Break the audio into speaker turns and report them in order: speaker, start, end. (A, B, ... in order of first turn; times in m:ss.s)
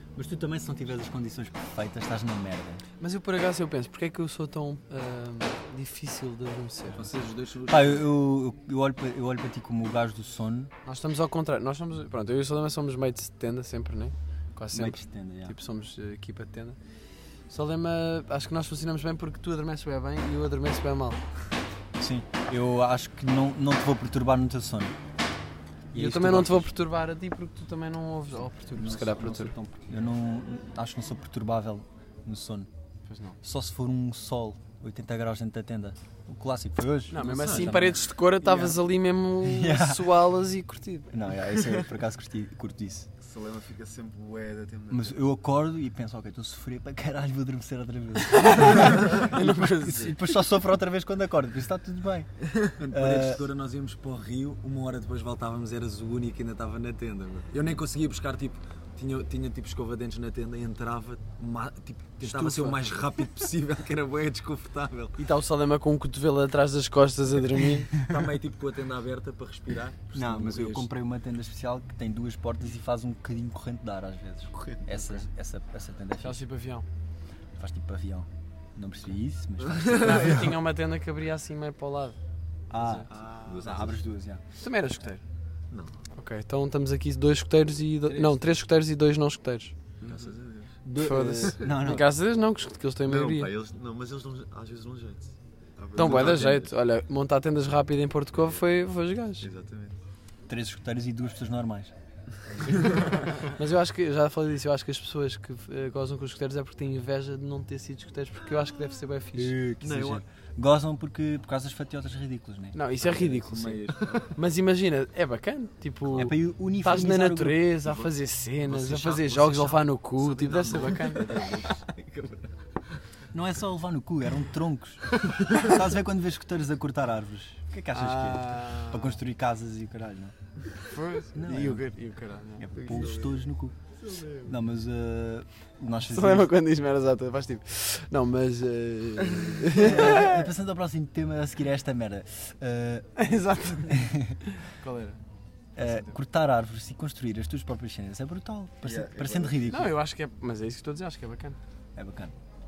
0:00.2-0:02.8 A
0:03.0-0:07.2 B
0:07.0-0:08.1 C
0:07.7-0:10.7 A
0:10.9-0:16.8 B
0:14.7-0:15.6 A
0:17.5-0:21.2 B
0:22.0-0:25.0 A
0:25.9-0:26.7 A
0:26.0-0:29.6 B
0:28.7-0:32.7 A
0:33.1-0:33.4 B
0:33.4-0:38.8 A
0:37.1-0:41.1 B
0:37.2-0:38.0 C
0:39.4-0:40.2 A
0:41.1-0:43.1 A
0:43.2-0:45.2 D
0:44.9-0:53.4 A
0:48.3-0:50.2 B
0:52.8-1:05.2 C
1:02.2-1:02.9 A
1:05.2-1:07.9 B
1:08.0-1:10.9 C
1:10.1-1:16.4 A
1:14.5-1:14.8 E
1:16.2-1:16.8 B
1:17.6-1:20.6 A
1:19.9-1:22.2 B
1:22.7-1:24.4 A
1:22.8-1:23.1 B
1:23.1-1:23.7 D
1:23.1-1:24.0 E
1:24.6-1:25.2 B
1:25.7-1:26.0 E
1:26.2-1:29.8 B
1:28.1-1:28.5 C
1:30.0-1:30.6 E
1:30.0-1:30.7 C
1:30.8-1:32.1 A
1:31.0-1:33.5 B
1:33.0-1:35.3 E
1:35.8-1:36.5 D
1:35.8-1:36.7 E
1:36.0-1:39.5 B
1:39.4-1:40.0 E
1:40.5-1:41.9 A
1:43.5-1:49.6 B
1:49.3-1:53.4 A
1:49.8-1:50.2 E
1:52.7-2:01.3 B
1:53.0-1:54.3 C
1:56.2-1:57.8 A
1:58.7-2:01.9 C
2:00.4-2:02.5 E
2:03.3-2:10.3 A
2:07.9-2:09.2 B
2:10.9-2:12.7 B
2:11.4-2:12.0 A
2:12.6-2:13.8 A
2:12.8-2:13.4 D
2:14.4-2:16.5 A
2:16.1-2:20.5 B
2:19.7-2:23.3 A
2:23.2-2:25.2 B
2:23.9-2:24.4 A
2:25.8-2:30.0 A
2:25.8-2:26.2 B
2:28.8-2:29.7 D
2:29.7-2:31.6 B
2:32.0-2:32.3 A